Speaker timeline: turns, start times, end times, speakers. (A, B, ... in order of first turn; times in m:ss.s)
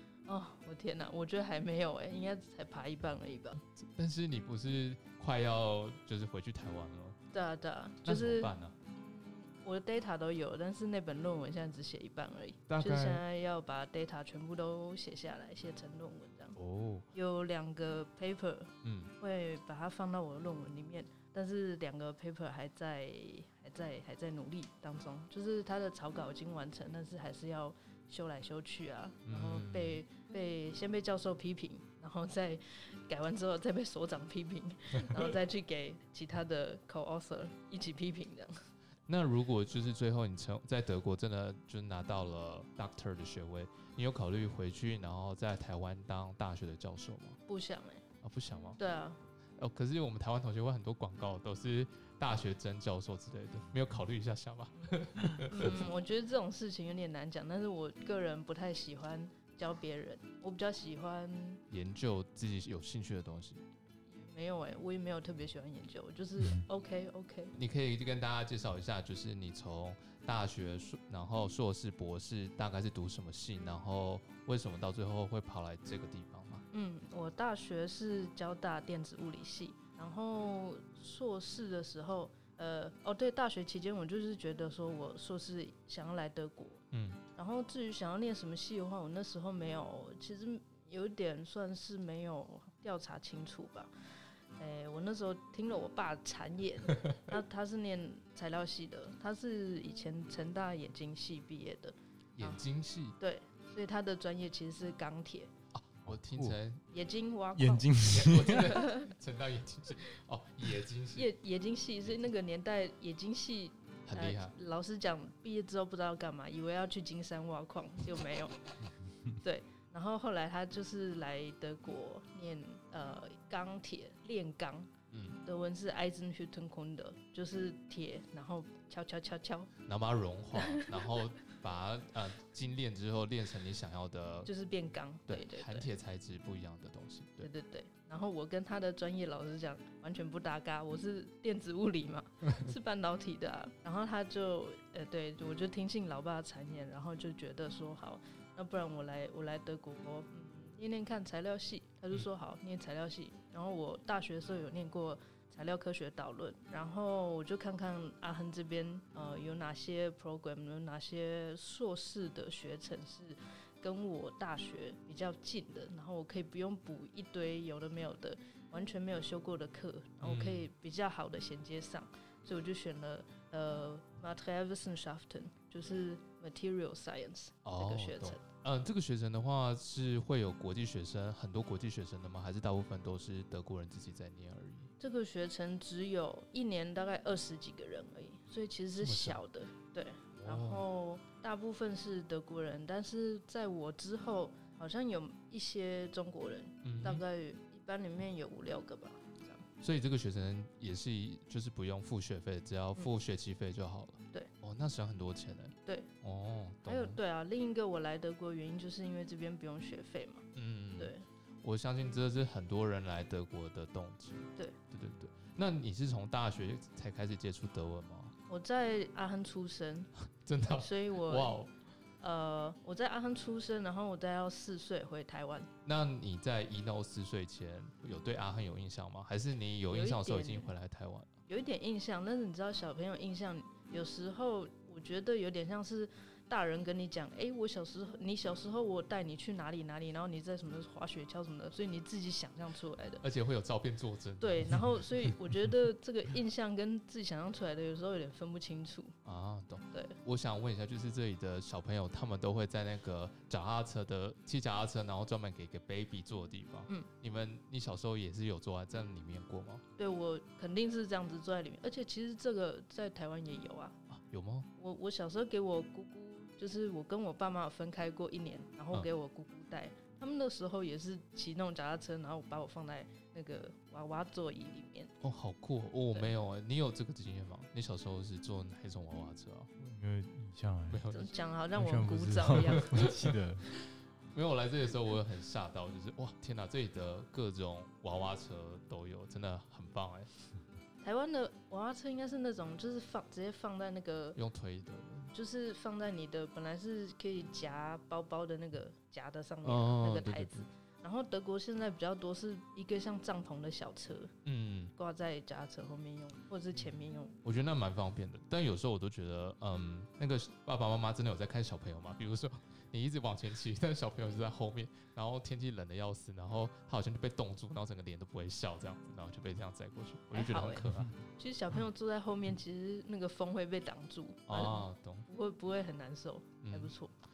0:00.2-0:03.6 A
0:03.7-0:07.2 B
0:07.3-0:16.6 A
0:08.0-0:08.8 B
0:12.7-0:13.2 B
0:16.6-0:17.1 B
0:17.1-0:38.5 A
0:18.8-0:19.1 B
0:29.2-0:30.0 B
0:35.0-0:35.2 B
0:39.1-0:47.4 B
0:47.5-0:48.0 A
0:48.2-0:48.8 B
0:48.8-0:49.2 A
0:49.6-0:55.8 B
0:55.5-1:01.6 A
1:01.7-1:03.6 B
1:04.1-1:07.5 A
1:07.5-1:16.6 B
1:16.7-1:26.8 A
1:26.9-1:27.2 B
1:27.3-1:33.9 A
1:34.6-1:42.6 A
1:42.4-1:43.2 B
1:43.2-1:45.5 A
1:45.7-1:46.8 B
1:46.0-1:46.6 C
1:46.9-1:49.1 A
1:47.5-1:48.8 C
1:48.0-1:51.3 B
1:51.1-1:58.6 A
1:54.1-1:54.5 B
1:59.3-2:04.9 A
2:05.1-2:05.4 B
2:05.4-2:09.7 A
2:09.8-2:14.5 B
2:10.6-2:10.9 A
2:14.4-2:15.9 A
2:15.3-2:17.5 B
2:17.4-2:58.4 A
2:50.2-2:50.7 B
2:57.6-3:04.9 B
3:05.0-3:19.6 A
3:09.0-3:09.4 B
3:10.4-3:10.8 B
3:16.8-3:17.2 B
3:19.8-3:27.2 B
3:26.8-3:30.5 A
3:30.5-3:38.3 B
3:31.0-3:31.2 A
3:38.5-3:40.1 A
3:40.4-3:41.7 B
3:40.7-3:41.6 A
3:42.2-3:45.7 A
3:45.8-3:51.3 B
3:49.9-3:50.7 A
3:51.5-4:03.2 A
4:03.2-4:05.3 B
4:04.4-4:09.1 A
4:09.2-4:19.8 B
4:20.0-4:24.0 A
4:24.1-4:24.7 B
4:24.8-4:35.1 A
4:35.2-4:39.7 B
4:39.8-4:41.0 C
4:40.9-4:41.3 B
4:41.1-4:43.3 A
4:41.7-4:43.7 C
4:44.3-4:50.3 B
4:51.0-4:54.4 A
4:54.4-4:55.3 B
4:55.3-5:04.3 A
4:59.6-5:00.7 B
5:04.4-5:04.9 B
5:04.9-5:07.4 A
5:07.4-5:21.1 B
5:20.3-5:27.1 A
5:24.5-5:25.3 B
5:26.6-5:26.9 B